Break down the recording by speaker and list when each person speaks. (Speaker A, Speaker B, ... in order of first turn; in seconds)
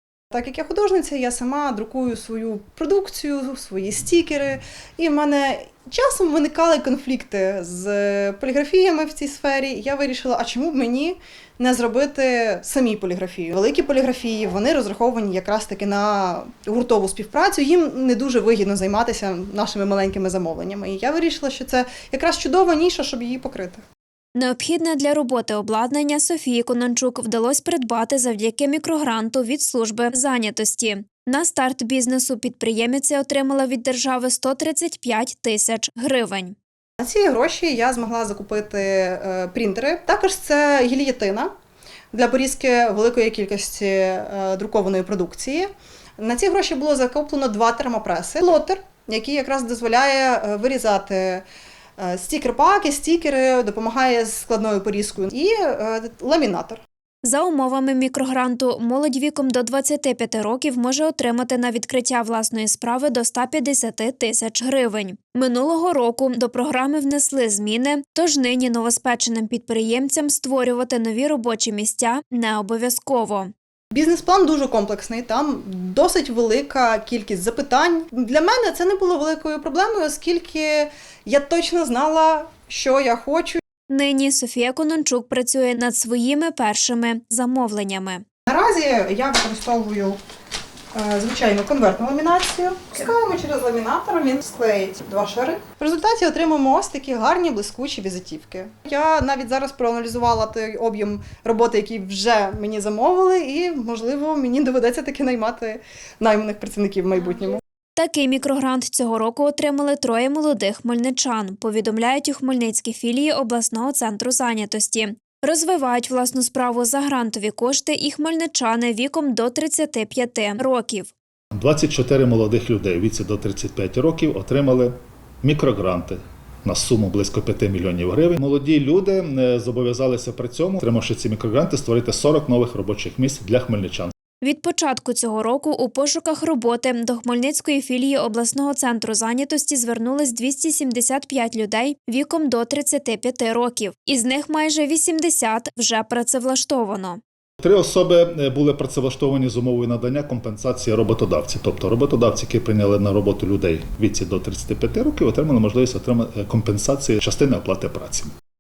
Speaker A: 0.3-23.8, 37.0-41.5, 42.1-45.7, 46.2-51.4, 52.0-56.8, 73.9-83.6, 88.5-90.2, 90.9-107.6
Speaker B: 24.4-36.5, 57.2-73.5, 83.9-88.2, 108.0-121.1, 134.4-147.2
Speaker C: 121.5-134.1, 147.6-158.3